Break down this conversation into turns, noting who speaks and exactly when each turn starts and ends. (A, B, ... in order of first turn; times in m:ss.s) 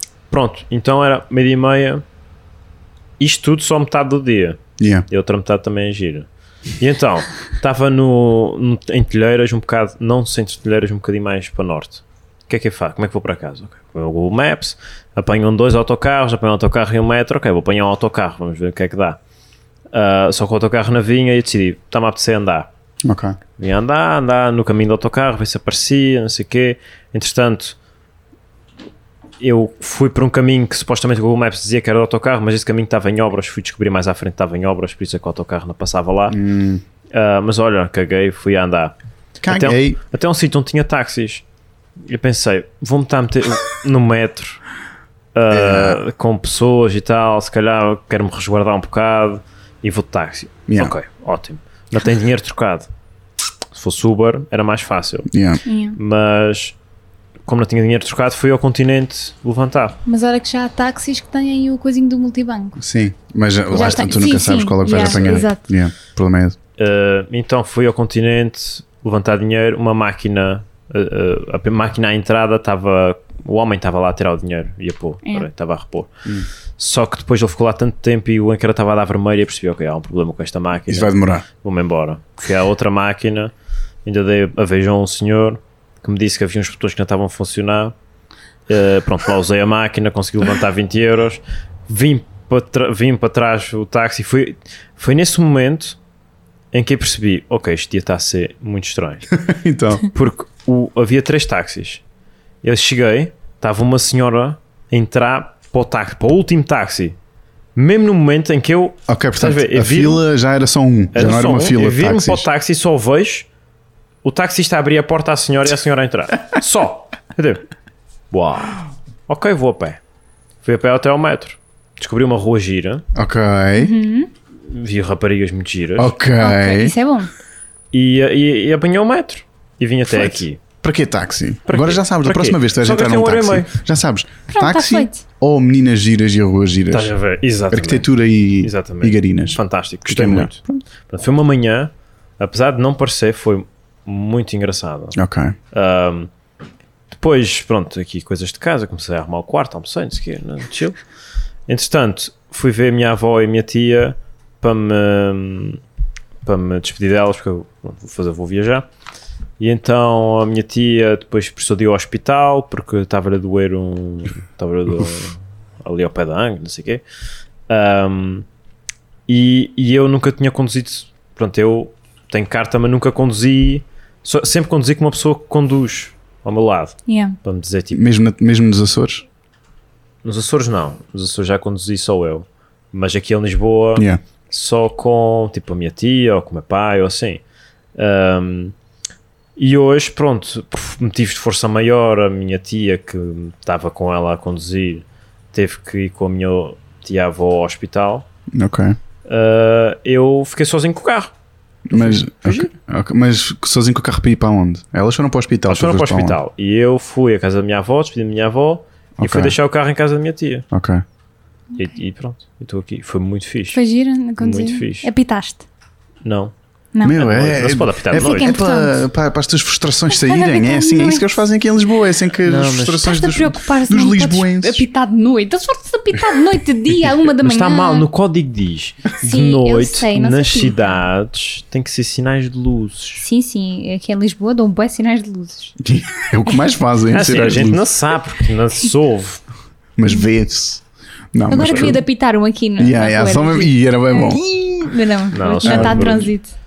0:00.3-0:02.0 A
0:03.2-0:06.3 A
0:04.8-0:05.0 B
0:06.8-0:19.2 A
0:19.9-0:22.7 A
0:23.0-0:23.4 B
0:23.6-0:27.8 A
0:29.4-0:36.4 A
0:36.3-0:36.8 B
0:37.1-0:38.9 A
0:39.4-0:40.0 B
0:39.5-0:41.4 A
0:42.0-0:44.6 A
0:45.3-0:52.9 A
0:45.5-0:46.0 B
0:50.7-0:50.9 B
0:53.7-0:55.3 A
0:55.3-0:55.6 B
0:55.6-0:56.0 C
0:56.0-0:56.7 A
0:57.4-1:00.0 A
1:00.0-1:02.8 C
1:02.8-1:06.6 B
1:03.7-1:05.6 C
1:04.9-1:05.4 A
1:06.8-1:16.1 A
1:16.8-1:23.5 A
1:20.9-1:21.4 B
1:24.0-1:27.9 A
1:28.7-1:36.0 A
1:36.7-1:39.3 A
1:39.3-1:40.1 B
1:40.0-1:42.0 A
1:42.6-1:47.2 A
1:47.8-1:50.2 A
1:49.1-1:52.5 B
1:51.1-1:53.5 A
1:54.2-1:57.6 A
1:58.3-2:00.0 A
2:00.6-2:03.0 A
2:03.1-2:03.9 B
2:03.8-2:04.3 C
2:04.7-2:06.1 A
2:06.0-2:06.9 B
2:06.4-2:07.3 C
2:07.9-2:10.6 A
2:10.1-2:17.1 B
2:11.7-2:13.7 A
2:14.5-2:15.2 C
2:16.9-2:18.1 A
2:17.7-2:20.5 B
2:18.6-2:25.2 A
2:25.1-2:25.5 B
2:25.7-2:26.3 A
2:27.1-2:31.0 A
2:31.7-2:35.8 A
2:36.4-2:38.8 A
2:39.6-2:47.0 A
2:47.7-2:48.4 A
2:49.3-2:58.0 A
2:57.1-2:57.4 C
2:57.9-2:59.2 B
3:00.2-3:07.4 A
3:08.0-3:08.7 A
3:09.6-3:18.3 A
3:18.5-3:19.0 B
3:19.3-3:21.3 A
3:21.9-3:26.4 B
3:21.9-3:22.7 A
3:25.7-3:30.7 A
3:29.2-3:29.5 B
3:30.7-3:31.0 B
3:31.8-3:33.8 A
3:33.7-3:35.6 C
3:34.4-3:35.1 A
3:36.2-3:36.5 A
3:36.9-3:37.2 C
3:37.0-3:44.8 B
3:37.1-3:38.6 A
3:38.1-3:39.0 C
3:40.1-3:41.3 C
3:42.4-3:43.1 A
3:43.0-3:48.1 C
3:47.4-3:53.2 A
3:49.2-3:51.0 C
3:53.2-3:55.8 C
3:55.8-3:57.8 B
3:57.1-3:59.4 A
4:00.0-4:02.0 B
4:01.5-4:06.5 C
4:01.5-4:01.9 A
4:02.8-4:04.4 B
4:05.3-4:06.3 A
4:05.6-4:06.3 B